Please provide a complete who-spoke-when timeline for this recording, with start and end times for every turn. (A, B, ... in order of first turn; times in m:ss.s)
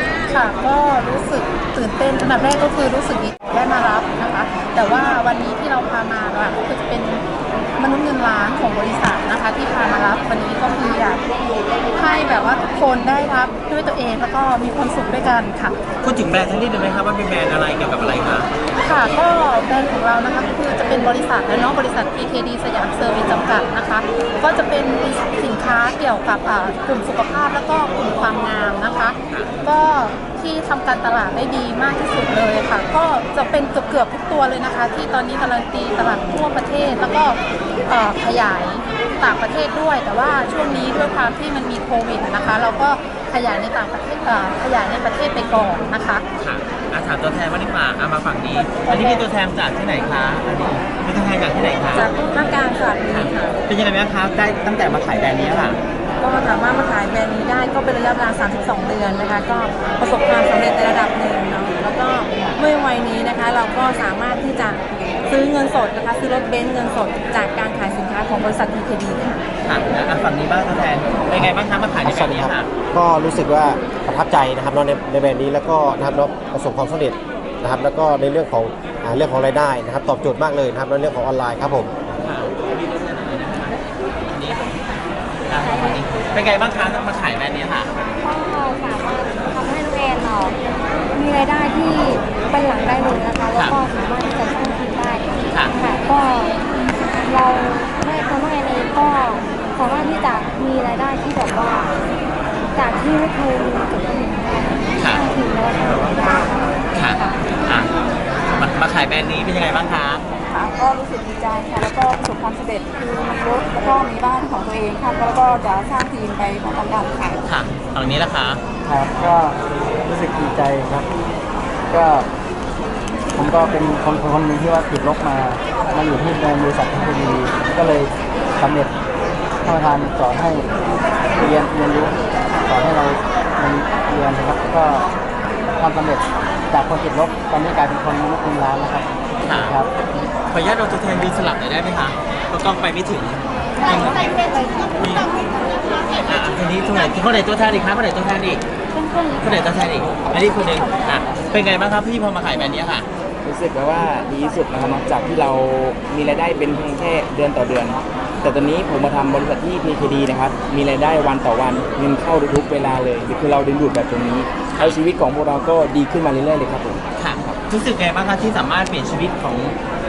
0:00.3-0:07.2 A
0:07.8-0:11.2 A
0:11.9-0:15.8 A
0:16.0-0:18.5 B
0:18.8-0:46.2 A
0:46.4-0:52.1 B
0:51.9-0:53.6 C
0:53.1-0:55.8 B
0:56.2-1:09.4 C
1:09.6-1:12.7 B
1:11.4-1:21.9 D
1:22.2-1:24.7 B
1:25.5-1:27.9 B
1:28.2-1:30.6 E
1:31.1-1:36.5 E
1:37.2-1:41.9 E
1:42.8-1:47.4 E
1:46.9-1:47.9 B
1:48.5-1:50.2 B
1:50.5-1:57.4 C
1:57.4-1:58.6 B
1:58.8-2:01.1 F
2:01.9-2:02.3 F
2:03.3-2:08.9 F
2:09.6-2:10.7 F
2:11.4-2:15.1 F
2:15.8-2:19.9 F
2:19.4-2:19.8 B
2:20.5-2:25.4 B
2:26.1-2:28.6 B
2:29.4-2:33.1 B
2:33.4-2:47.6 G
2:47.2-2:49.8 B